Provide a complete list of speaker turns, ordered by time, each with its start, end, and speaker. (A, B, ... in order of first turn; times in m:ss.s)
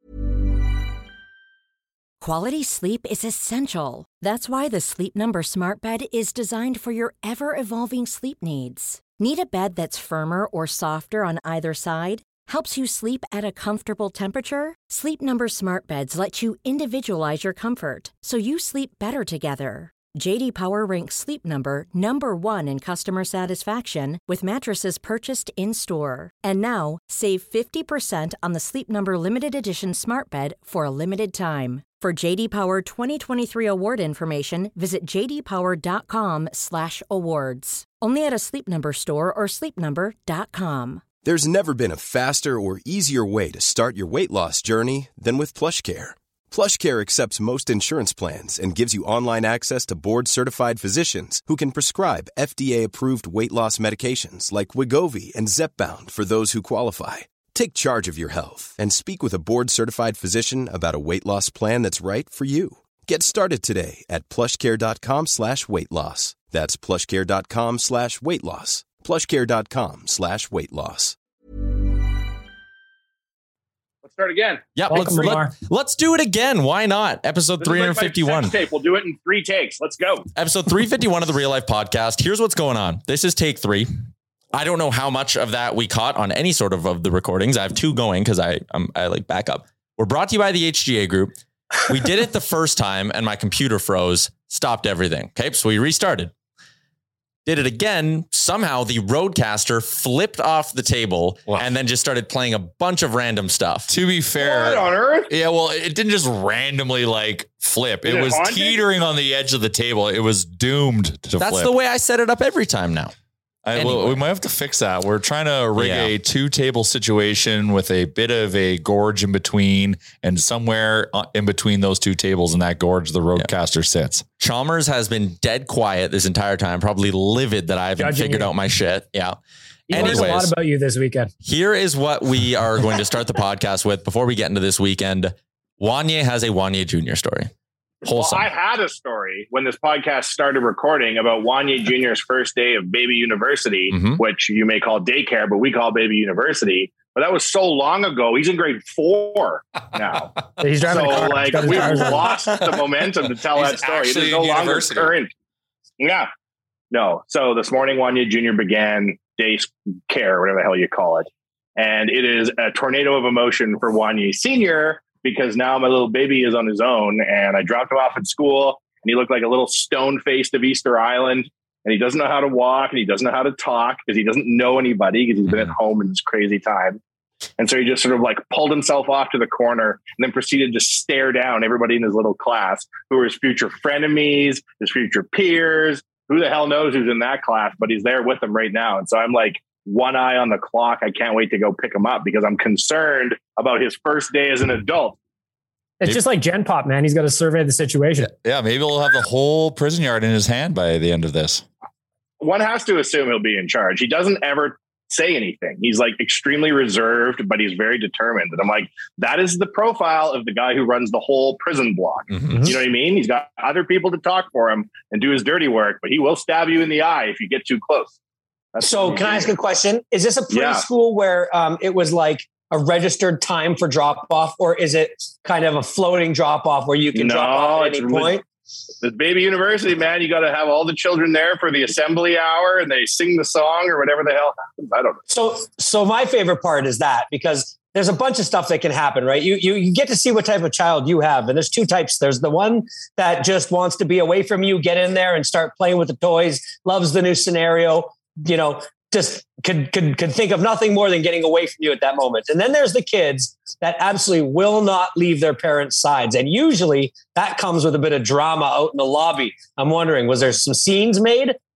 0:02.2-0:41.0 A
0:41.2-1:11.2 B
1:14.0-1:14.7 C
1:14.8-1:18.6 D
1:14.9-1:15.5 E
1:17.6-1:20.3 C
1:20.3-1:23.9 D
1:24.5-1:36.3 D
1:37.4-1:43.9 D
1:43.9-1:51.7 F
1:44.4-1:45.3 C
1:48.0-1:48.8 C
1:51.4-1:53.1 D
1:53.6-2:04.2 F
1:53.7-1:54.2 D
1:55.8-1:56.1 D
2:04.4-2:09.4 D
2:08.0-2:08.5 E
2:09.9-2:11.3 E
2:09.9-2:10.5 D
2:11.4-2:17.5 D
2:18.0-2:18.5 D
2:18.1-2:35.3 C
2:23.9-2:24.2 D
2:30.6-2:32.4 E
2:31.6-2:32.9 F
2:33.5-2:35.1 F
2:36.0-2:36.3 C
2:36.9-2:57.0 C
2:57.6-3:15.2 C
3:16.0-3:18.3 E
3:18.2-3:21.6 F
3:22.4-3:38.1 C
3:32.3-3:32.7 D
3:38.7-3:39.5 C
3:38.8-3:48.4 G
3:40.5-3:40.8 C
3:47.1-3:48.3 C
3:49.0-3:55.2 C
3:55.3-4:21.6 G